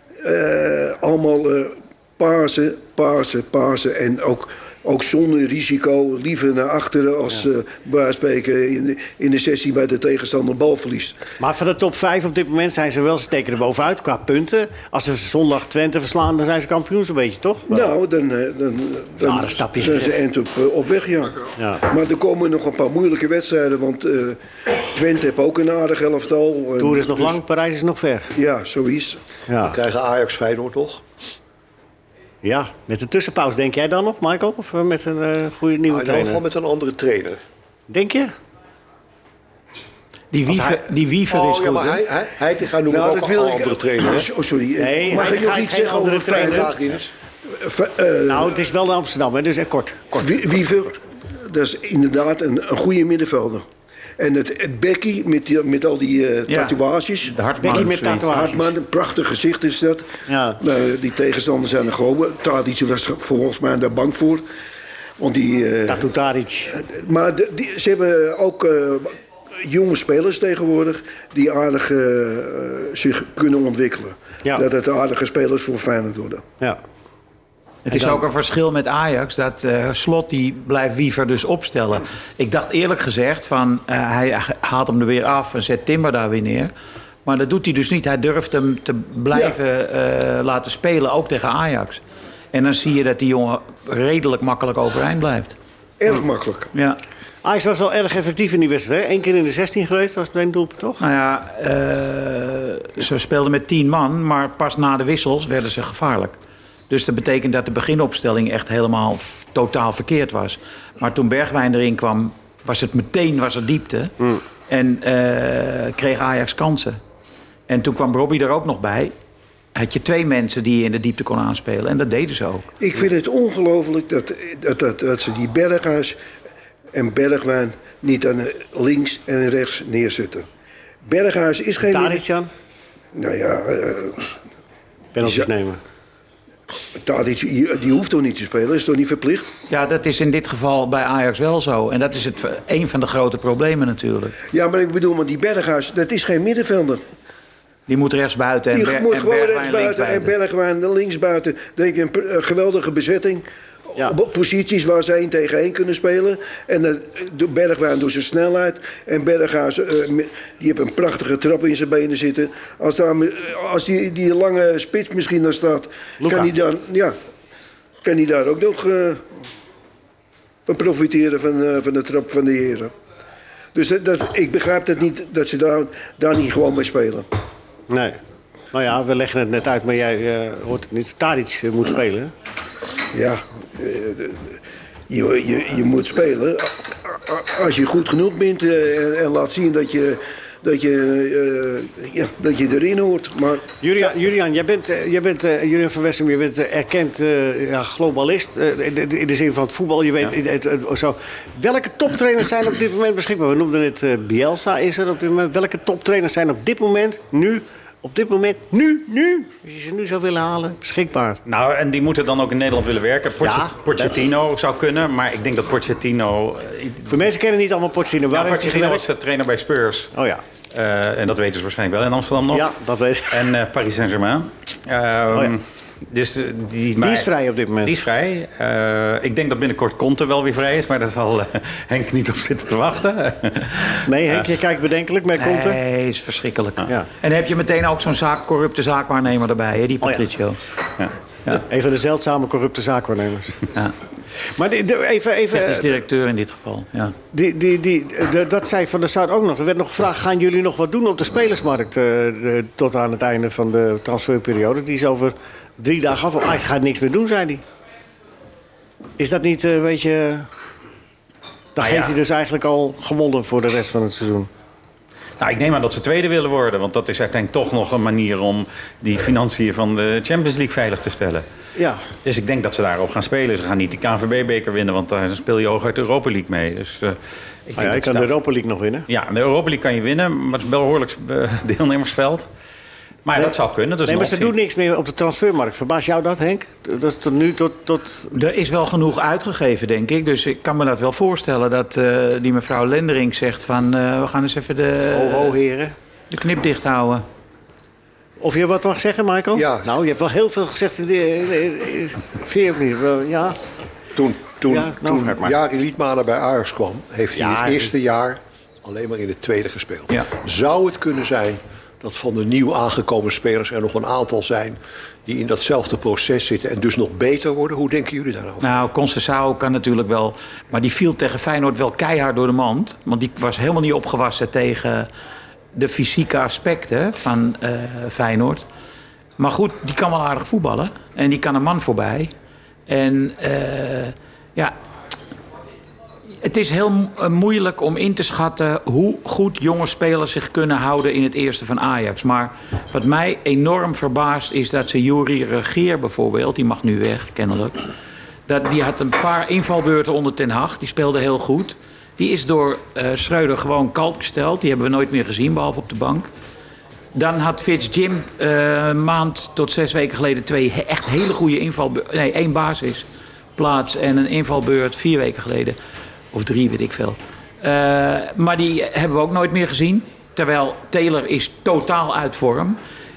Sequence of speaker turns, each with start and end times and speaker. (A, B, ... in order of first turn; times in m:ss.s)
0:00.2-0:11.2 A
0:11.4-0:17.9 B
0:17.7-0:27.4 A
0:19.2-0:20.1 B
0:21.6-0:21.8 B
0:26.8-0:28.3 B
0:28.4-0:29.2 A
0:29.5-0:29.8 B
0:29.6-0:31.0 C
0:32.4-0:36.4 B
0:35.9-0:37.4 C
0:37.9-0:38.3 B
0:40.3-0:42.0 D
0:40.5-0:40.8 B
0:41.3-0:44.3 C
0:42.9-0:46.7 A
0:44.8-0:46.7 B
0:46.3-0:47.1 C
0:47.5-0:48.6 A
0:48.3-0:50.4 B
0:50.2-0:53.6 A
0:54.2-1:00.1 A
0:56.5-0:58.3 D
0:57.6-0:58.7 B
1:00.3-1:00.6 B
1:00.6-1:04.4 A
1:05.2-1:06.1 A
1:05.9-1:06.8 B
1:06.8-1:16.4 A
1:17.9-1:26.7 D
1:17.9-1:18.2 B
1:27.2-1:32.0 D
1:32.5-1:35.6 D
1:36.0-1:36.7 A
1:37.4-1:41.0 B
1:41.0-1:46.4 D
1:46.9-1:54.1 D
1:54.7-1:57.0 D
1:57.7-1:59.1 D
1:59.8-2:02.7 D
2:02.8-2:06.2 A
2:06.9-2:10.5 A
2:11.0-2:12.2 A
2:11.8-2:12.5 B
2:13.2-2:14.3 A
2:15.2-2:15.8 B
2:15.2-2:15.5 A
2:17.0-2:19.5 A
2:19.7-2:24.4 D
2:24.5-2:27.0 A
2:27.9-2:30.3 D
2:28.7-2:33.4 A
2:34.0-2:47.2 A
2:46.2-2:46.5 B
2:48.0-2:49.2 A
2:50.7-2:52.9 A
2:53.8-2:57.3 A
2:57.9-2:58.2 B
2:58.7-3:02.3 B
3:03.1-3:04.5 A
3:05.1-3:13.7 A
3:13.8-3:31.4 B
3:31.5-3:37.1 E
3:33.4-3:34.2 B
3:37.1-3:39.0 B
3:38.3-3:40.1 E
3:40.1-3:40.4 B
3:40.7-3:42.7 E
3:42.5-3:43.5 B
3:43.3-3:47.3 E
3:47.0-3:48.0 B
3:47.8-3:54.5 E
3:54.0-3:55.8 B
3:55.4-4:00.6 D
4:01.6-4:03.6 B
4:04.5-4:05.9 B
4:05.5-4:07.2 D
4:07.3-4:17.6 B
4:19.2-4:20.5 B
4:21.8-4:24.5 B
4:21.8-4:22.2 E
4:25.4-4:31.4 E
4:31.8-4:32.1 B
4:32.2-4:38.3 E
4:37.8-4:39.1 B
4:39.1-4:42.5 E
4:43.2-4:44.5 E
4:44.1-4:48.3 B
4:48.3-4:55.6 D
4:55.1-4:55.9 B
4:56.3-4:57.2 D
4:58.4-5:03.6 B
4:59.5-4:59.9 C
5:04.2-5:18.8 C
5:04.7-5:05.6 B
5:07.4-5:07.9 B
5:18.6-5:25.1 D
5:25.8-5:28.6 D
5:29.4-5:32.3 D
5:32.9-5:34.7 D
5:36.4-5:47.8 D
5:48.5-5:56.3 D
5:57.1-6:05.8 D
6:06.3-6:12.8 D